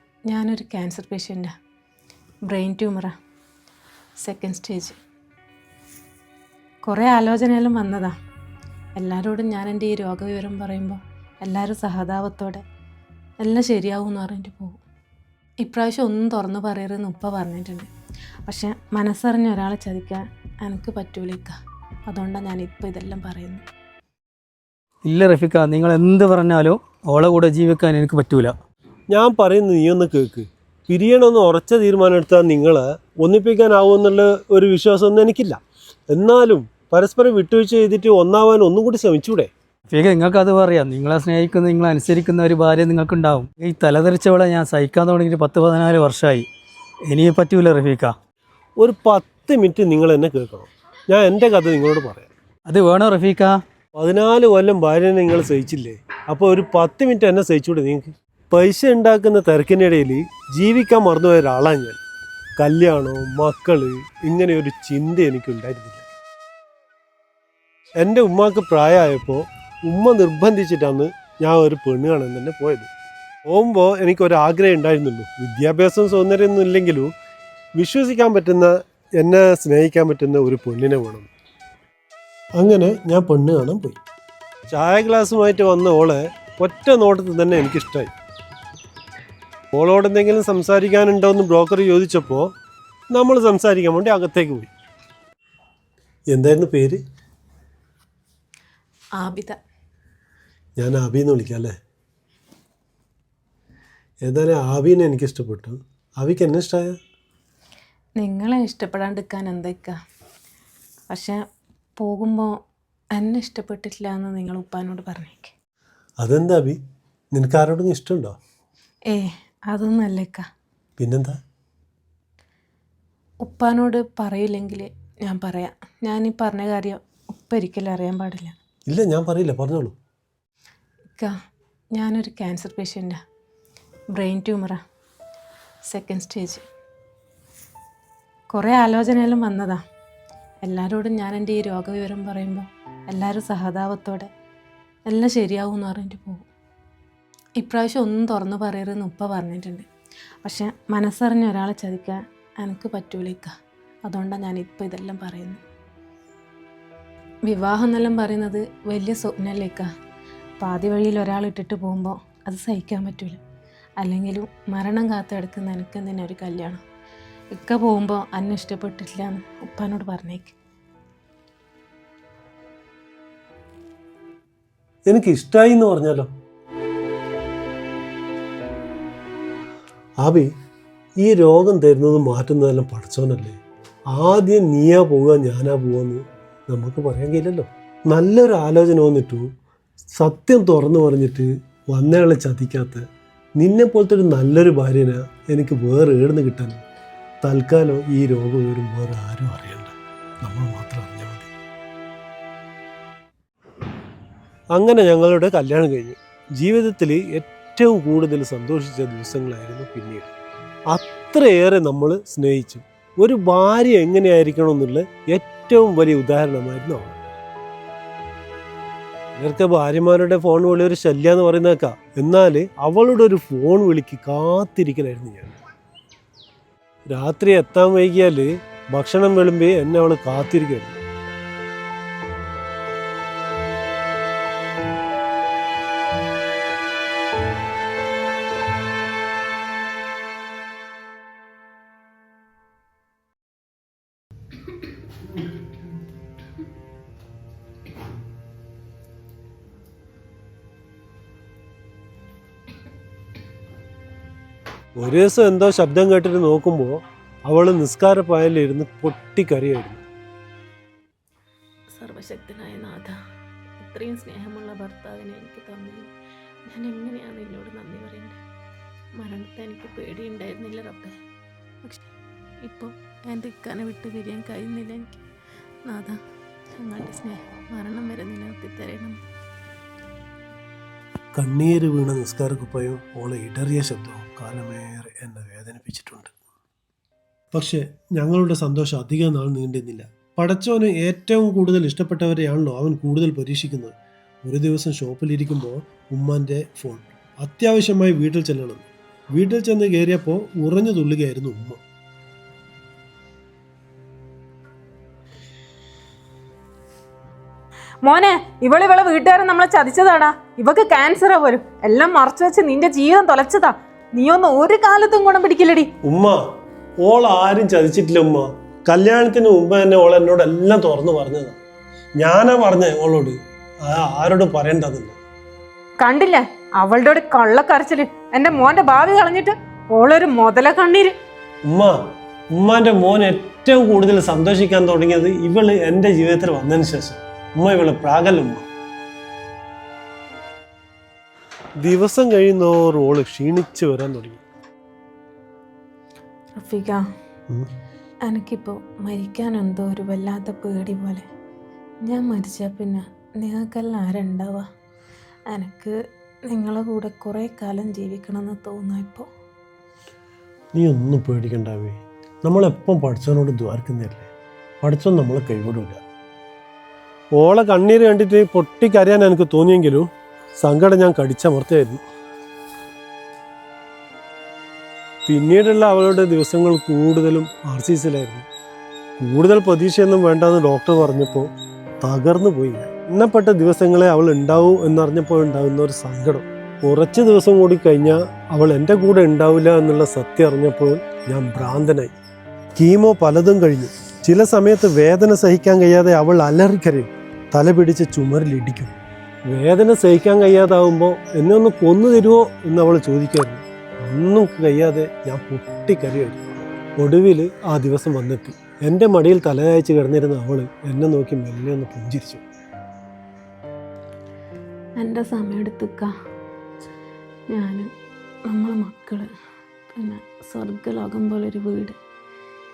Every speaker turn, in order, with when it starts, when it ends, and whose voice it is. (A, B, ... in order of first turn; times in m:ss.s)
0:00.3-0:01.5 A
0:02.4-0:03.1 A
0:04.2-0:05.0 A
0:06.8-0:08.1 A
0:09.0-0:12.6 A
0:13.4-0:14.8 A
0:15.6-0:17.9 A
0:18.4-0:21.5 A
0:22.1-0:23.6 A
0:25.0-0:28.5 B
0:29.1-0:35.6 C
0:36.1-0:39.5 C
0:39.9-0:46.4 B
0:47.1-0:48.1 B
0:48.8-0:52.3 C
0:52.7-0:53.6 B
0:54.0-1:02.0 C
1:02.6-1:06.0 C
1:08.0-1:12.9 C
1:13.5-1:17.1 C
1:17.8-1:21.3 C
1:22.6-1:24.0 C
1:24.7-1:28.1 C
1:29.7-1:32.5 C
1:33.1-1:34.7 C
1:36.3-1:37.0 C
1:39.2-1:39.6 A
1:40.8-1:41.7 C
1:44.2-1:46.9 C
1:48.2-1:50.0 A
1:51.1-1:51.4 A
1:52.0-1:52.5 A
1:53.1-1:55.5 A
1:56.2-1:56.8 C
1:57.3-1:58.4 C
1:59.1-2:00.4 A
2:01.0-2:01.4 C
2:03.4-2:08.5 A
2:08.9-2:09.9 C
2:11.9-2:13.2 A
2:14.1-2:14.8 A
2:15.9-2:16.6 A
2:18.5-2:19.8 A
2:20.6-2:24.3 A
2:25.1-2:26.5 A
2:27.6-2:29.9 A
2:30.4-2:33.5 A
2:34.1-2:35.6 A
2:37.5-2:39.9 A
2:40.6-2:43.4 A
2:44.0-2:46.8 A
2:47.5-2:50.6 A
2:55.1-2:56.3 C
3:00.2-3:00.5 C
3:01.2-3:03.6 C
3:04.1-3:09.5 C
3:10.1-3:13.0 C
3:13.6-3:16.8 C
3:17.4-3:19.9 C
3:20.4-3:21.5 C
3:24.7-3:30.3 C
3:30.9-3:37.2 C
3:39.4-3:45.5 C
3:47.1-3:51.0 C
4:15.0-4:20.0 C
4:21.9-4:23.1 A
4:23.8-4:26.1 A
4:26.6-4:28.4 A
4:29.2-4:31.1 A
4:32.6-4:35.2 A
4:35.9-4:36.2 A
4:36.8-4:39.2 A
4:41.3-4:46.3 C
4:47.5-4:53.9 C
4:54.4-5:01.8 C
5:08.0-5:15.9 D
5:16.0-5:16.4 C
5:17.0-5:21.6 C
5:22.2-5:25.2 C
5:26.0-5:31.1 D
5:31.6-5:32.0 C
5:32.5-5:38.6 C
5:41.8-5:44.4 C
5:46.6-5:47.0 A
5:48.2-5:51.2 A
5:52.0-5:54.6 A
5:55.5-5:55.9 A
5:56.5-5:59.2 A
6:00.7-6:04.3 C
6:04.8-6:06.0 C
6:07.4-6:10.1 C
6:10.6-6:12.0 C
6:15.2-6:18.4 C
6:19.2-6:21.5 C
6:22.0-6:32.1 C
6:32.8-6:39.0 C
6:39.5-6:52.4 C
6:55.0-6:56.1 A
6:57.5-6:57.9 A
6:58.5-6:59.3 A
7:00.0-7:02.0 A